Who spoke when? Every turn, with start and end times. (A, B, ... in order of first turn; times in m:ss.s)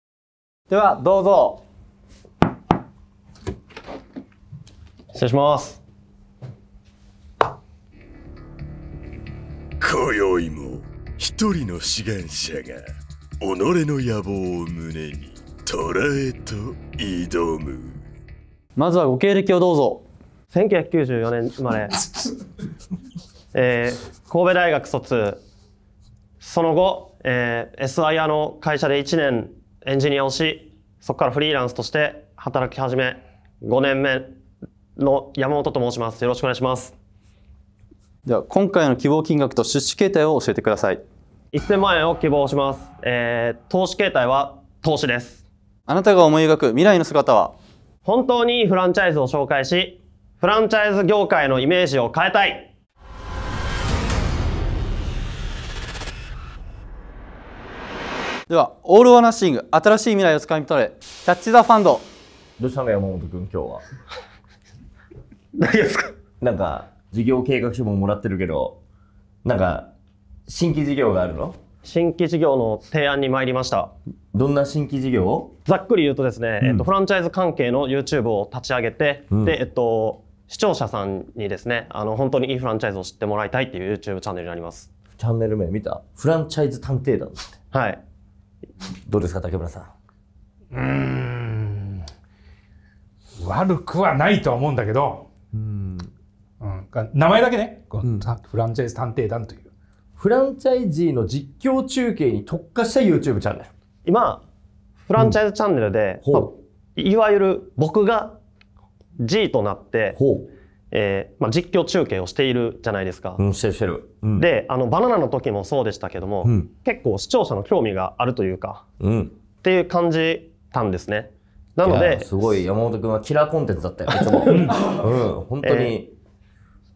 0:00.7-0:01.6 A
0:05.1-0:05.8 B
0:09.8-0:12.8 C
0:13.4-0:18.0 C
0:18.8-0:20.0 A
0:20.5-0:22.0 B
0:23.5-0:25.4 B
0:26.4-0:34.4 B
0:35.0-0:36.9 B
0:38.3-0:41.0 A
0:41.5-0:45.4 B
0:45.9-0:47.6 A
0:48.0-0:52.7 B
0:58.5-1:02.1 A
1:02.6-1:03.8 D
1:05.6-1:06.1 B
1:06.4-1:08.8 D
1:09.4-1:09.9 D
1:10.5-1:11.6 D
1:11.8-1:13.9 B
1:14.3-1:15.5 D
1:15.7-1:24.9 B
1:16.6-1:16.9 D
1:19.3-1:19.6 D
1:25.2-1:27.6 D
1:27.7-1:28.0 B
1:29.1-1:29.9 D
1:30.7-1:32.0 E
1:33.4-1:35.3 E
1:35.5-1:36.1 D
1:36.6-1:39.6 E
1:38.0-1:38.3 D
1:40.2-1:43.7 D
1:44.0-1:44.4 B
1:45.0-1:48.4 B
1:46.2-1:46.5 D
1:49.2-1:50.2 B
1:50.1-1:50.5 D
1:50.9-1:53.4 B
1:53.4-1:54.5 D
1:54.4-1:58.8 B
1:56.4-1:56.7 D
1:59.0-1:59.4 D
1:59.6-2:02.3 B
2:01.8-2:06.1 D
2:04.5-2:05.0 E
2:05.6-2:06.0 B